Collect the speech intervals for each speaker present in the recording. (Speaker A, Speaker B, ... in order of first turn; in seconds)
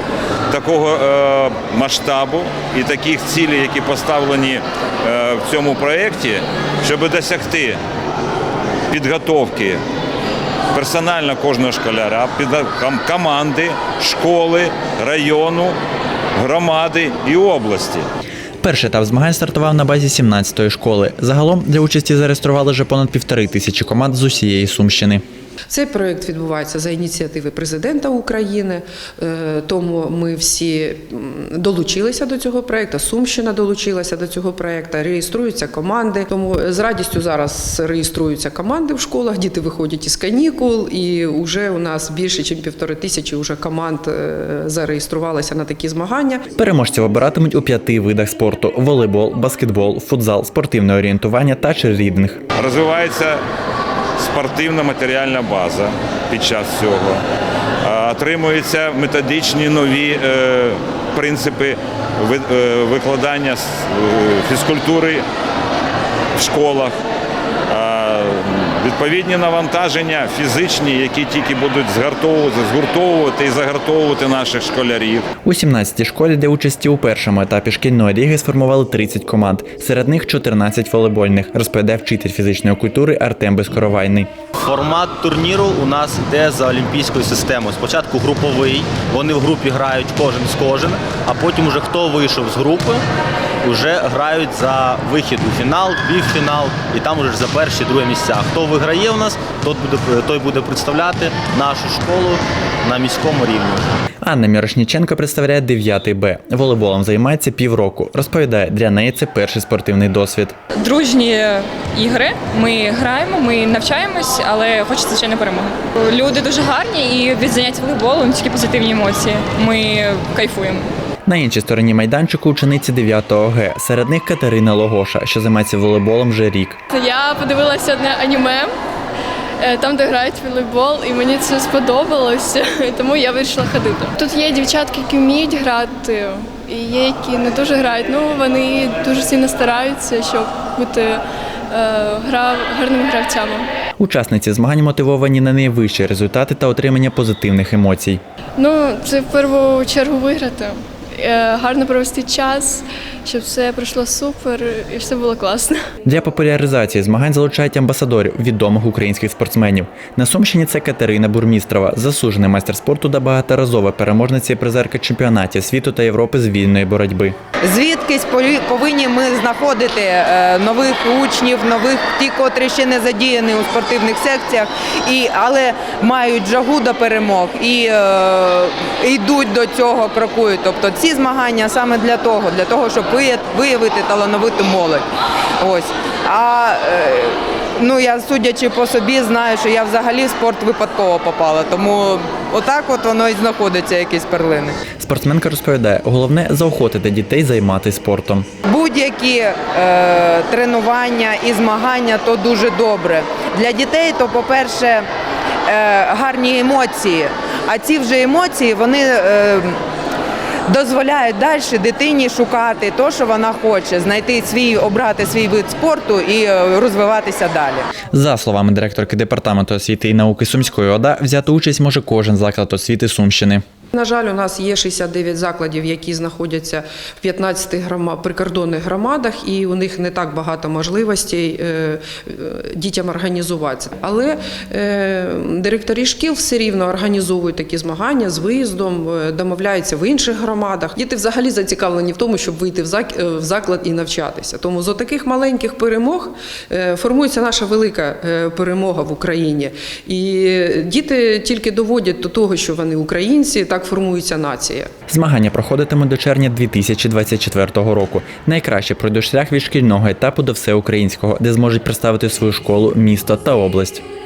Speaker A: 0.5-7.8, 8.9-9.8, 10.7-15.8, 16.4-18.1, 52.6-53.4, 54.2-57.2, 57.8-65.2, 66.4-67.0, 67.7-75.3
Speaker B: 18.6-25.2, 46.5-52.4, 75.4-84.3, 104.2-110.5, 121.3-126.8, 144.0-148.2, 156.1-167.3, 195.0-198.5, 218.1-223.6, 255.1-264.0
Speaker C: 25.7-46.4, 223.9-254.9
Speaker D: 84.6-93.0, 93.6-103.9
Speaker E: 110.7-120.9
Speaker F: 126.9-128.7, 129.6-143.7, 148.6-155.8
Speaker G: 167.6-185.0, 185.6-194.8, 198.7-205.0, 205.7-209.8, 210.7-217.9